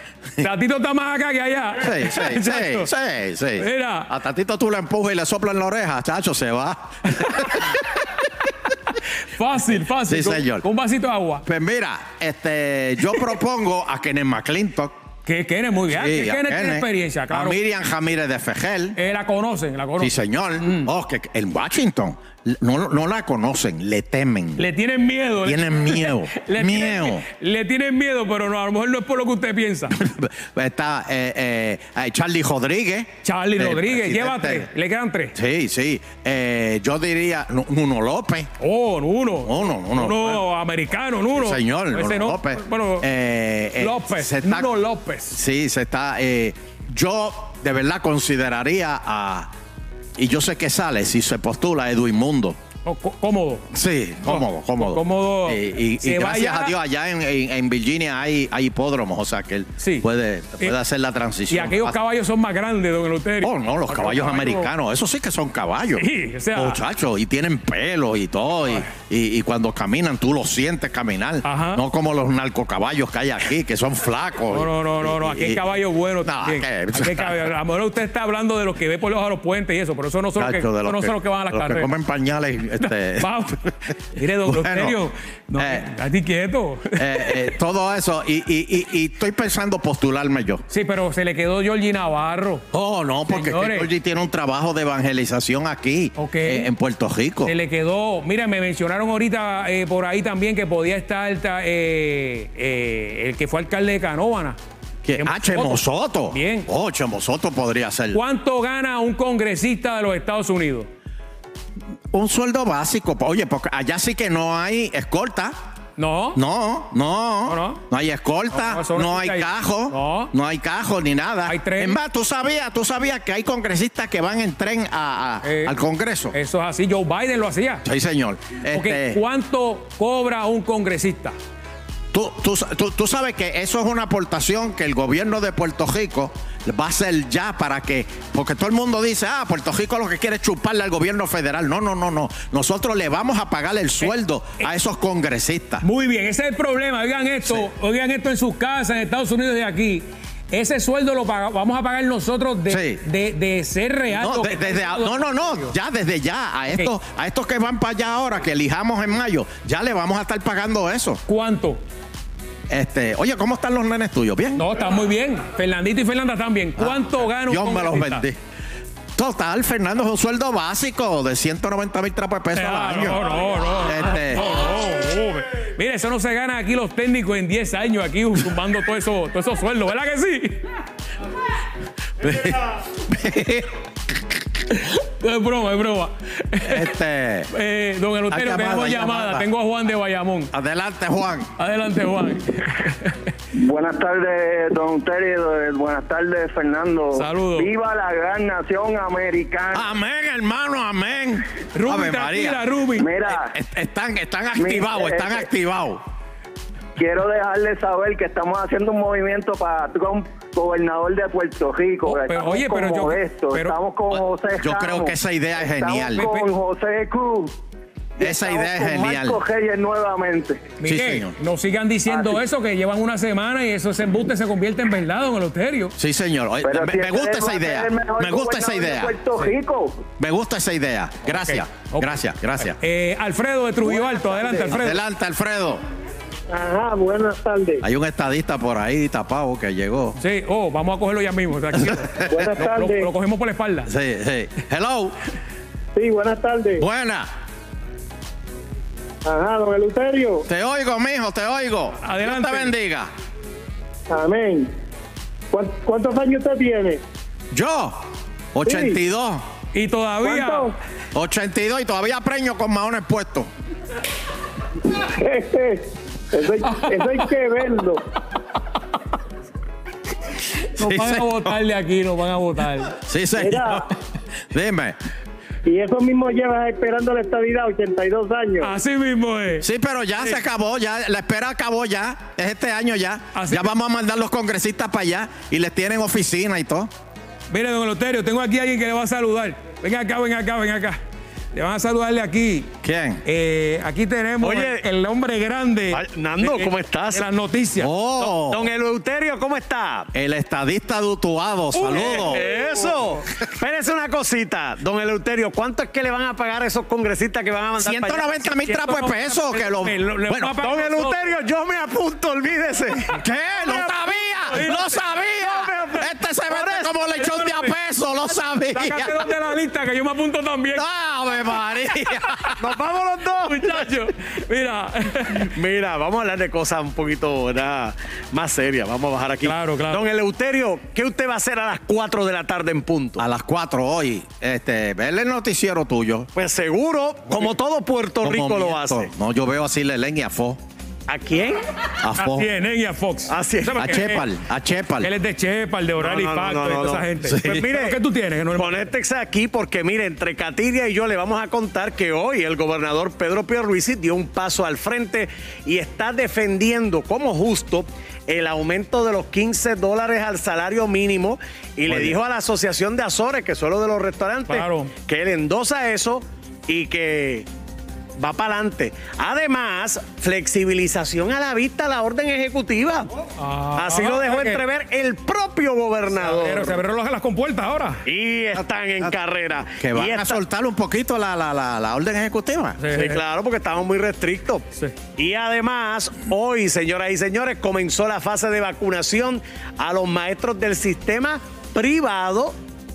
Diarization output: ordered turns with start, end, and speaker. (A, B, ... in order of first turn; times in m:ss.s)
0:00.4-0:02.9 A
0:01.8-0:07.8 B
0:03.6-0:04.1 A
0:07.4-0:07.7 A
0:09.3-0:11.4 A
0:10.0-0:10.7 B
0:11.4-0:14.9 B
0:15.2-0:17.6 A
0:15.9-0:19.0 B
0:19.0-0:20.1 A
0:20.0-0:24.6 B
0:24.6-0:30.0 A
0:25.4-0:27.2 B
0:29.9-0:34.7 B
0:33.2-0:35.4 A
0:35.4-0:38.5 B
0:38.6-0:43.1 A
0:39.4-0:40.4 B
0:41.4-0:44.7 B
0:43.8-0:45.4 A
0:45.3-0:49.5 B
0:50.2-0:52.6 B
0:52.8-0:53.6 A
0:53.7-1:02.0 B
0:54.2-0:56.8 A
0:59.8-1:00.1 A
1:01.5-1:04.7 A
1:03.4-1:15.6 B
1:06.0-1:06.8 A
1:11.4-1:11.8 A
1:14.5-1:21.9 A
1:16.2-1:17.5 B
1:20.4-1:23.3 B
1:22.8-1:27.5 A
1:24.4-1:25.0 B
1:25.6-1:25.9 B
1:27.0-1:30.6 B
1:30.7-1:32.6 A
1:32.7-1:37.5 B
1:33.3-1:33.9 A
1:36.2-1:36.7 A
1:37.4-1:44.6 A
1:45.0-1:48.2 B
1:45.2-1:46.7 A
1:48.1-1:50.9 A
1:52.1-1:55.5 B
1:56.0-1:56.4 A
1:56.4-2:06.4 B
1:57.5-1:57.8 A
1:58.5-2:00.3 A
2:01.5-2:02.0 A
2:05.4-2:05.8 A
2:06.3-2:07.8 A
2:07.8-2:09.2 B
2:08.7-2:11.4 A
2:12.1-2:25.8 B
2:25.8-2:35.7 A
2:32.7-2:33.0 B
2:34.1-2:41.2 B
2:41.3-2:41.8 A
2:42.7-2:44.6 B
2:44.6-2:48.3 A
2:46.8-2:48.4 B
2:49.2-2:54.4 B
2:52.5-3:00.6 A
3:02.2-3:03.8 B
3:04.8-3:06.9 A
3:06.6-3:07.5 B
3:07.5-3:10.5 A
3:08.3-3:09.5 B
3:10.5-3:11.5 B
3:11.6-3:13.1 A
3:13.5-3:19.9 C
3:17.2-3:17.7 A
3:19.7-3:22.7 B
3:21.7-3:23.1 A
3:23.0-3:23.5 C
3:23.2-3:26.0 B
3:24.6-3:25.4 C
3:27.0-3:37.5 C
3:32.0-3:33.8 A
3:34.1-3:36.3 B
3:36.2-3:36.5 A
3:38.2-3:40.7 C
3:38.2-3:39.4 B
3:40.8-3:45.9 A
3:40.8-3:41.3 B
3:42.1-3:42.4 C
3:46.0-3:49.2 B
3:46.6-3:50.0 C
3:50.2-3:52.8 B
3:51.3-3:52.1 A
3:52.7-3:55.0 A
3:54.7-3:55.8 B
3:56.5-3:57.8 D
3:57.8-4:00.2 B
4:00.2-4:03.9 A
4:01.8-4:02.3 B
4:02.3-4:03.1 D
4:03.9-4:05.2 B
4:06.0-4:06.8 D
4:06.8-4:07.3 B
4:09.3-4:10.5 D
4:10.5-4:13.1 B
4:12.0-4:12.7 A
4:14.1-4:14.7 D
4:15.5-4:17.0 D
4:17.5-4:18.0 B
4:18.5-4:19.4 B
4:18.6-4:19.0 D
4:19.7-4:20.7 A
4:20.2-4:20.8 D
4:21.1-4:23.5 B
4:25.2-4:28.0 D
4:26.6-4:27.1 A
4:30.7-4:33.0 A
4:30.8-4:31.6 B
4:32.9-4:33.9 B
4:33.4-4:33.8 D
4:34.5-4:35.0 B
4:35.6-4:38.7 D
4:38.6-4:39.7 A
4:39.6-4:46.9 B
4:43.3-4:43.7 A
4:47.5-4:51.0 A
4:51.5-4:52.7 A
4:52.8-4:53.2 B
4:53.2-4:57.9 A
4:54.4-4:54.8 E
4:55.9-4:57.2 E
4:57.8-4:58.7 B
4:58.2-5:00.1 E
5:00.1-5:02.4 B
5:01.8-5:02.9 A
5:01.8-5:08.5 E
5:07.8-5:10.6 B
5:08.6-5:11.2 A
5:10.6-5:14.0 E
5:13.1-5:19.2 B
5:14.5-5:15.0 A
5:15.4-5:17.1 E
5:18.7-5:20.8 A
5:20.7-5:22.6 B
5:22.6-5:23.9 E
5:23.4-5:25.5 A
5:25.3-5:33.2 E
5:29.4-5:30.0 A
5:33.2-5:36.3 B
5:36.4-5:39.1 E
5:38.2-5:40.6 B
5:41.1-5:41.6 E
5:42.0-5:42.5 B
5:42.2-5:44.3 A
5:43.3-5:44.0 E
5:43.8-5:45.1 B
5:45.0-5:48.9 A
5:46.0-5:48.0 E
5:47.3-5:47.6 B
5:48.6-6:07.5 E
6:01.9-6:02.2 B
6:04.5-6:04.9 A
6:08.2-6:13.1 E
6:13.4-6:14.6 A
6:13.8-6:16.8 E
6:16.2-6:18.0 A
6:18.1-6:20.4 E
6:18.6-6:19.2 B
6:19.8-6:22.8 B
6:22.8-6:23.2 A
6:22.9-6:24.6 E
6:25.2-6:32.6 E